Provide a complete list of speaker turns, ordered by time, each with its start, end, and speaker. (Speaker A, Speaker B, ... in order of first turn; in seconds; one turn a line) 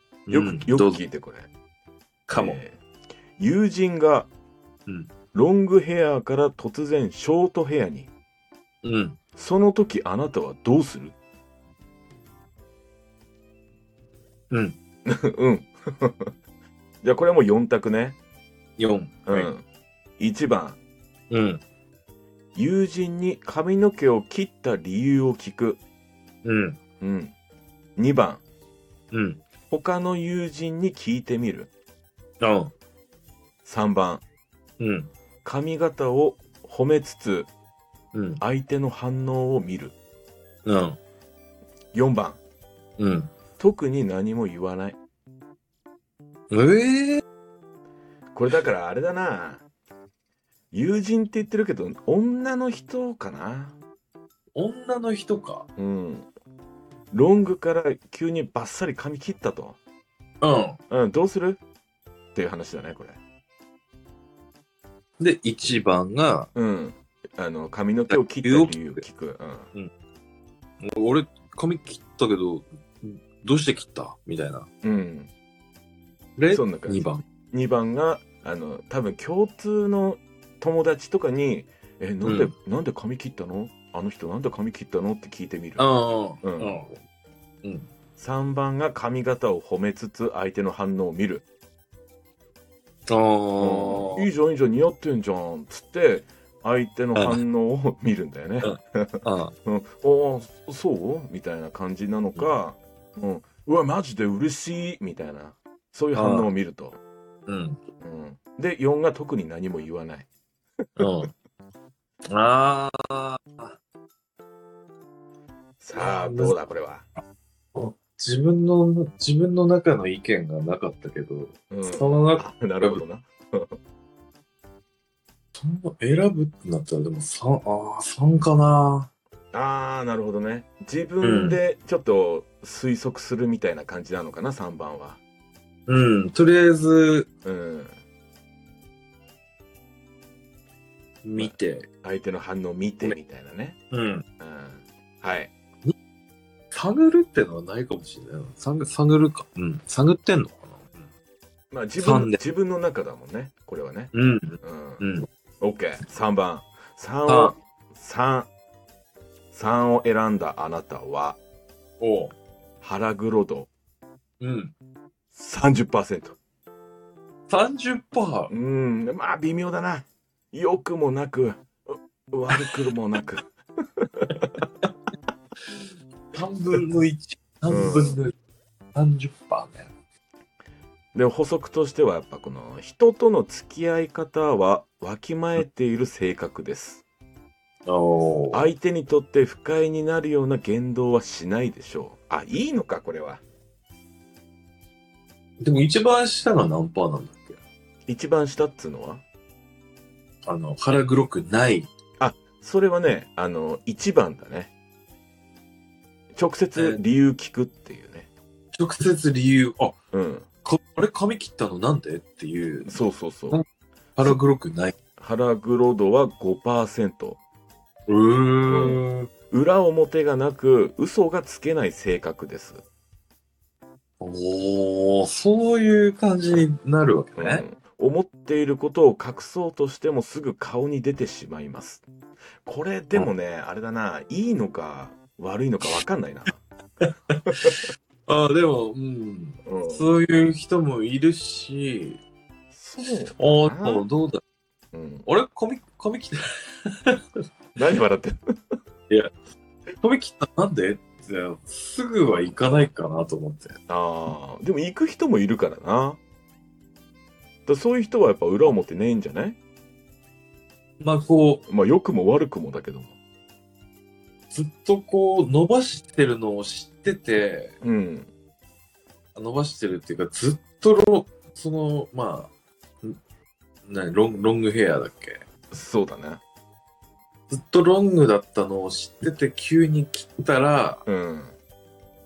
Speaker A: 0.3-1.0
Speaker B: 0.3-1.5
Speaker A: 2.3-2.6
Speaker B: 2.3-2.8
Speaker B: 3.4-4.3
Speaker B: 5.3-8.1
Speaker A: 8.8-9.2
Speaker B: 9.4-11.2
Speaker A: 14.5-14.8
Speaker B: 15.1-16.3
Speaker B: 17.0-18.2
Speaker A: 18.8-19.5
Speaker B: 19.3-19.6
Speaker B: 20.2-20.8
Speaker A: 21.3-21.6
Speaker B: 22.6-25.8
Speaker A: 26.4-26.8
Speaker B: 27.0-27.4
Speaker B: 28.0-28.4
Speaker A: 29.1-29.4
Speaker B: 29.7-31.7
Speaker A: 32.4-32.7
Speaker B: 33.6-34.2
Speaker A: 34.8-35.1
Speaker B: 35.4-37.5
Speaker A: 38.1-38.4
Speaker B: 38.4-39.9
Speaker A: 40.6-41.0
Speaker B: 41.9-42.4
Speaker A: 43.0-43.3
Speaker B: 43.6-45.0
Speaker A: 46.5-47.2
Speaker B: 48.3-49.6
Speaker B: 50.7-53.8
Speaker A: 54.5-55.7
Speaker B: 55.8-56.3
Speaker B: 57.1-59.8
Speaker A: 60.4-60.8
Speaker B: 60.9-61.6
Speaker B: 62.4-63.2
Speaker A: 65.2-66.5
Speaker B: 66.5-69.7
Speaker A: 68.1-69.0
Speaker A: 70.8-74.7
Speaker B: 74.8-75.3
Speaker A: 76.4-77.2
Speaker B: 76.5-85.9
Speaker A: 82.2-82.5
Speaker A: 85.8-87.0
Speaker B: 86.4-86.8
Speaker A: 87.6-87.9
Speaker B: 88.2-91.4
Speaker A: 93.1-94.3
Speaker B: 93.6-107.0
Speaker A: 97.2-97.4
Speaker A: 98.6-99.5
Speaker A: 106.2-106.5
Speaker A: 107.5-107.8
Speaker B: 108.0-110.3
Speaker A: 111.0-111.3
Speaker A: 112.3-113.8
Speaker B: 115.8-117.0
Speaker A: 115.9-116.5
Speaker A: 117.8-123.0
Speaker B: 121.7-123.8
Speaker A: 125.5-129.1
Speaker B: 129.5-135.2
Speaker A: 131.2-131.6
Speaker A: 135.9-137.3
Speaker B: 137.4-138.0
Speaker A: 141.2-141.9
Speaker B: 141.3-143.8
Speaker A: 143.9-144.2
Speaker B: 144.4-145.5
Speaker A: 146.7-151.0
Speaker B: 151.7-155.1
Speaker A: 152.0-152.4
Speaker A: 154.1-155.3
Speaker B: 155.6-158.5
Speaker A: 157.3-157.6
Speaker B: 159.5-161.4
Speaker A: 162.0-162.3
Speaker B: 162.8-163.7
Speaker A: 164.4-164.7
Speaker B: 165.3-166.4
Speaker A: 167.5-168.5
Speaker B: 168.5-174.5
Speaker A: 175.7-178.3
Speaker B: 177.7-178.2
Speaker A: 178.9-179.9
Speaker B: 181.1-187.0
Speaker A: 187.8-188.7
Speaker B: 188.5-193.4
Speaker A: 195.6-197.6
Speaker B: 198.1-199.2
Speaker A: 200.4-201.9
Speaker B: 202.2-204.7
Speaker B: 206.3-208.3
Speaker A: 206.8-207.0
Speaker A: 208.8-210.0
Speaker B: 210.1-210.5
Speaker A: 210.7-213.7
Speaker B: 212.8-213.6
Speaker A: 214.2-214.9
Speaker B: 215.2-217.4
Speaker A: 218.1-219.3
Speaker B: 218.7-222.8
Speaker A: 224.2-227.7
Speaker B: 227.4-232.1
Speaker B: 232.6-236.6
Speaker A: 237.3-242.2
Speaker B: 239.7-240.1
Speaker B: 242.7-244.1
Speaker A: 243.1-244.4
Speaker B: 244.9-245.3
Speaker A: 245.2-247.2
Speaker B: 247.8-248.4
Speaker A: 249.1-249.3
Speaker A: 250.0-253.8
Speaker B: 253.9-256.2
Speaker B: 257.7-259.6
Speaker A: 261.0-261.6
Speaker B: 261.7-263.1
Speaker A: 264.5-267.8
Speaker B: 267.8-268.3
Speaker A: 269.4-272.5
Speaker A: 273.9-275.4
Speaker B: 275.7-276.4
Speaker A: 277.5-281.1
Speaker B: 281.1-281.6